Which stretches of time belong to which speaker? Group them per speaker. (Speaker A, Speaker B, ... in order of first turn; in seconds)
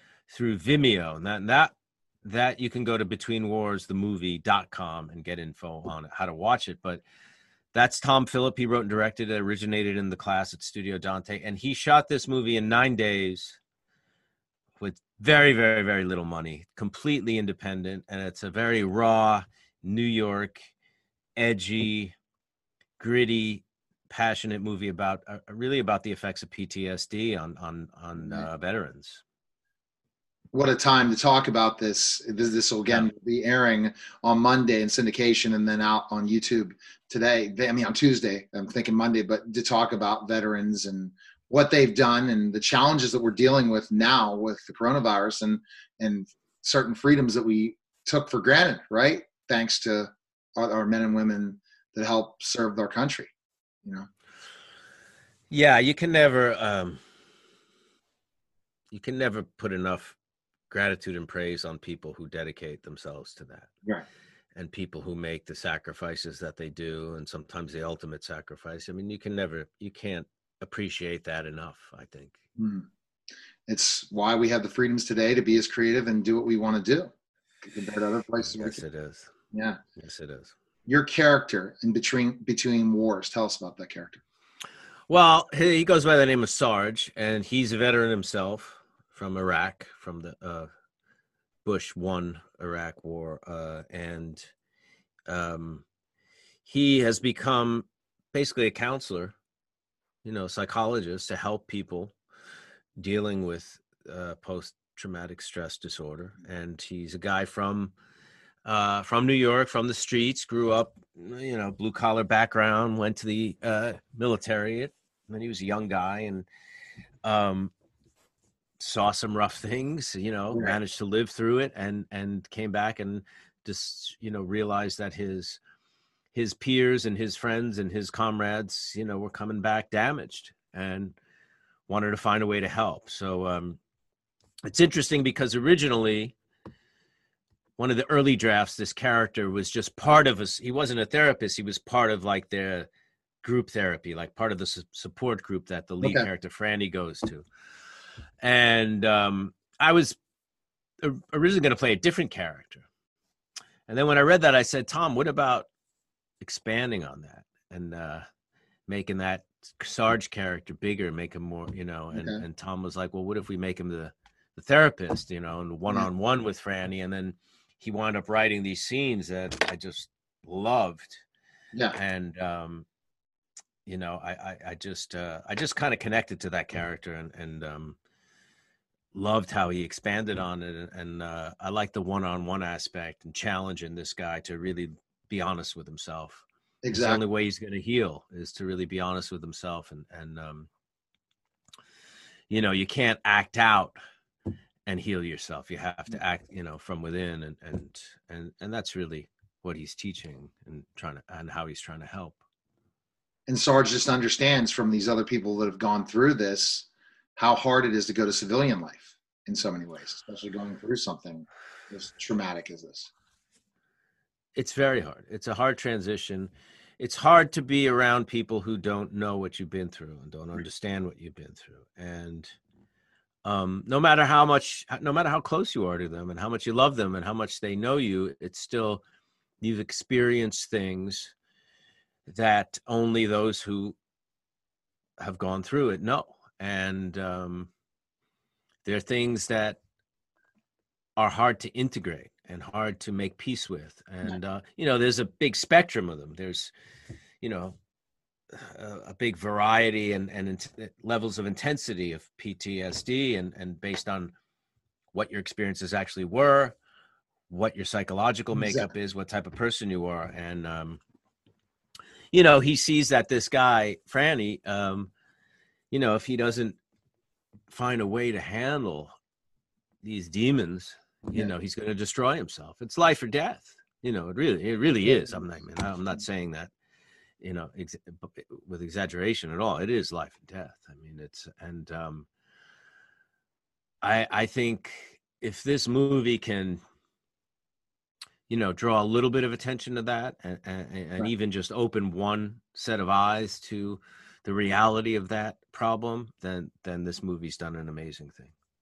Speaker A: 0.3-1.7, 2.2-7.0, 7.7-13.6, 14.8-20.7, 21.4-22.1, 23.0-29.2, 55.5-57.0, 58.9-60.1, 60.7-63.7, 64.5-72.3, 78.5-79.3, 80.0-80.5, 85.1-90.7, 91.6-94.5, 95.3-95.8, 96.6-99.3, 100.2-102.1, 103.0-107.9, 108.6-116.5, 117.2-117.7, 118.8-125.6, 126.3-131.1, 131.9-133.8, 134.6-136.3, 137.8-142.9, 143.4-147.4, 148.4-150.2, 151.0-152.8, 153.9-155.7, 156.4-158.2, 158.9-171.2, 171.9-172.8, 173.8-178.0, 179.1-190.7, 192.5-194.0, 194.8-202.4, 214.5-222.5, 223.4-229.0, 229.6-231.3, 232.3-233.9, 235.2-237.7, 238.8-239.8, 241.2-246.7, 247.4-247.8, 248.5-254.3, 255.1-256.7, 257.5-261.0, 262.3-265.1, 265.9-266.8, 267.7-269.1, 270.0-276.7, 277.4-282.3, 284.0-286.8, 288.5-298.5
Speaker B: 28.2-28.5, 30.5-53.3, 72.6-72.9, 73.7-77.1, 77.6-78.8, 79.5-79.8, 80.9-84.2, 120.5-120.8, 162.1-162.4, 186.8-187.2, 203.5-213.1, 258.5-258.9, 275.0-275.4